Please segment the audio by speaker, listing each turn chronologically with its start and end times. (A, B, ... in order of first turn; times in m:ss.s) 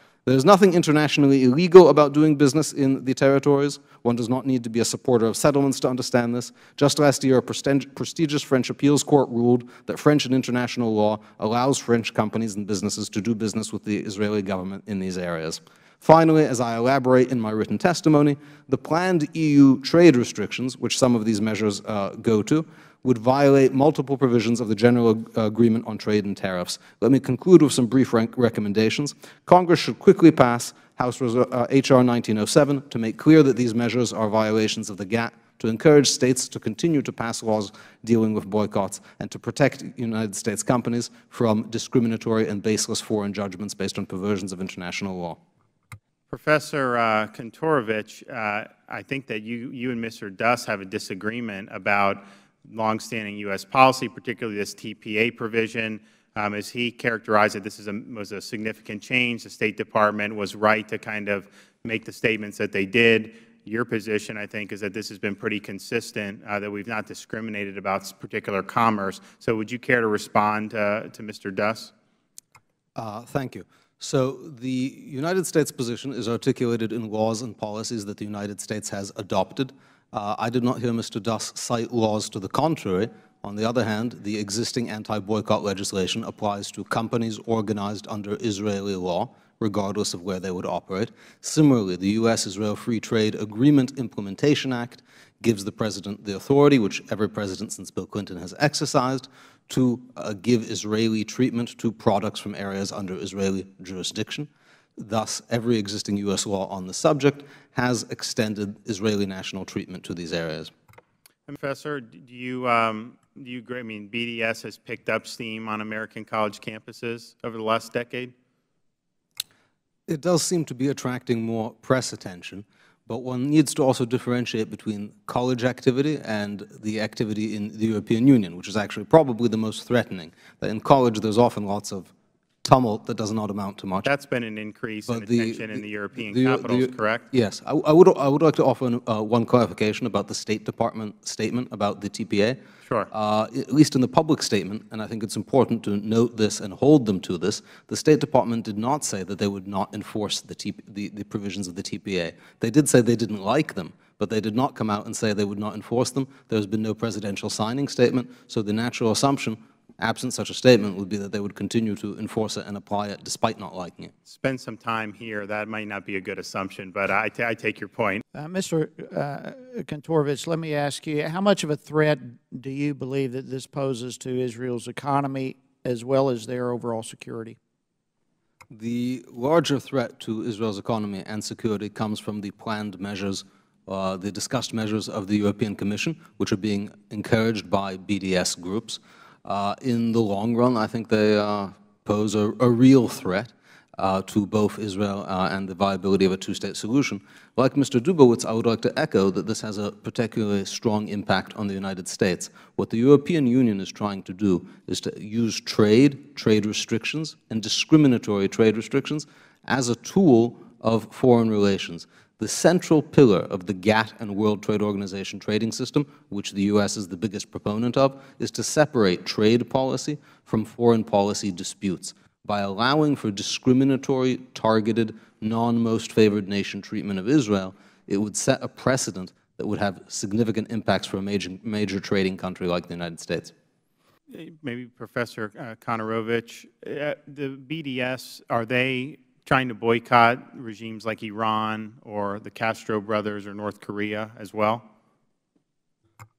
0:00.3-0:45.4 A
0:46.3-1:11.9 B
1:13.0-1:50.7 A
1:51.5-1:58.3 B
2:00.1-2:12.1 A
2:12.6-2:14.1 A
2:14.0-2:17.3 B
2:15.1-2:22.6 A
2:23.1-2:44.1 A
2:44.3-2:48.2 B
2:48.4-2:57.6 C
2:58.7-3:53.5 A
3:54.3-4:04.8 B